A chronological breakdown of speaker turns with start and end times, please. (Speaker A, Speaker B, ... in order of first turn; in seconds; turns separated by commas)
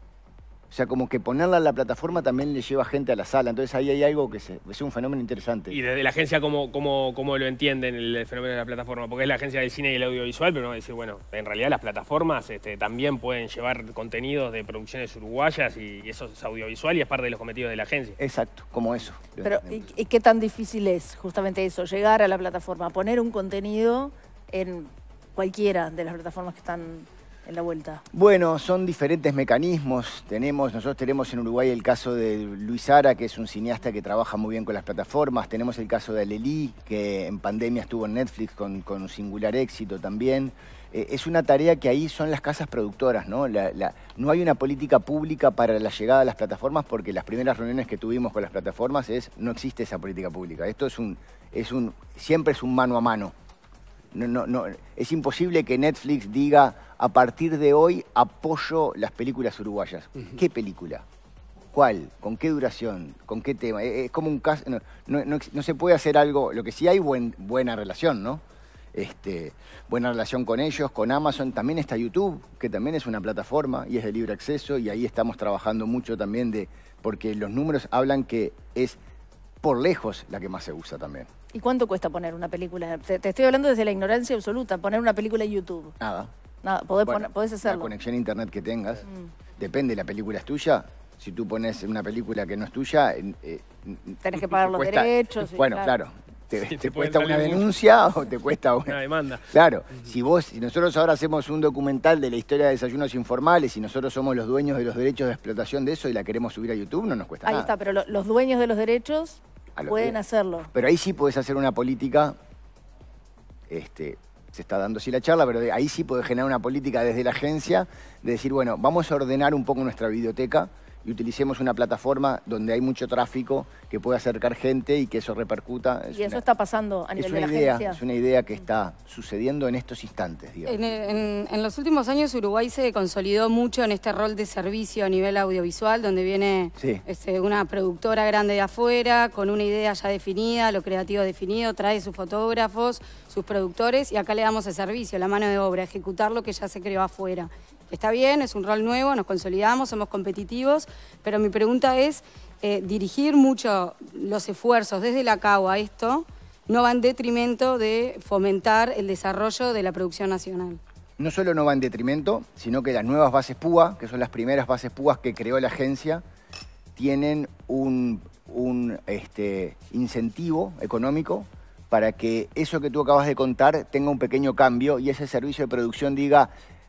Speaker A: 0.7-5.8, Speaker B: 5.7-18.1, Speaker A: 18.2-19.9, Speaker C: 19.4-28.0, Speaker A: 28.1-53.3, Speaker A: 54.1-61.0, Speaker A: 61.7-68.4, Speaker A: 68.9-79.0, Speaker A: 79.6-81.3, Speaker C: 81.5-85.9, Speaker A: 86.0-86.3, Speaker C: 86.6-87.9, Speaker A: 87.0-89.0, Speaker A: 89.6-107.7, Speaker C: 94.2-95.9, Speaker B: 96.6-97.7, Speaker B: 98.9-99.4, Speaker C: 107.4-110.7, Speaker A: 109.8-110.2, Speaker A: 110.7-112.3, Speaker A: 113.7-126.4, Speaker C: 126.1-128.0, Speaker A: 127.1-131.0, Speaker D: 130.7-160.8, Speaker A: 136.8-137.0, Speaker A: 161.2-166.2, Speaker A: 166.9-176.5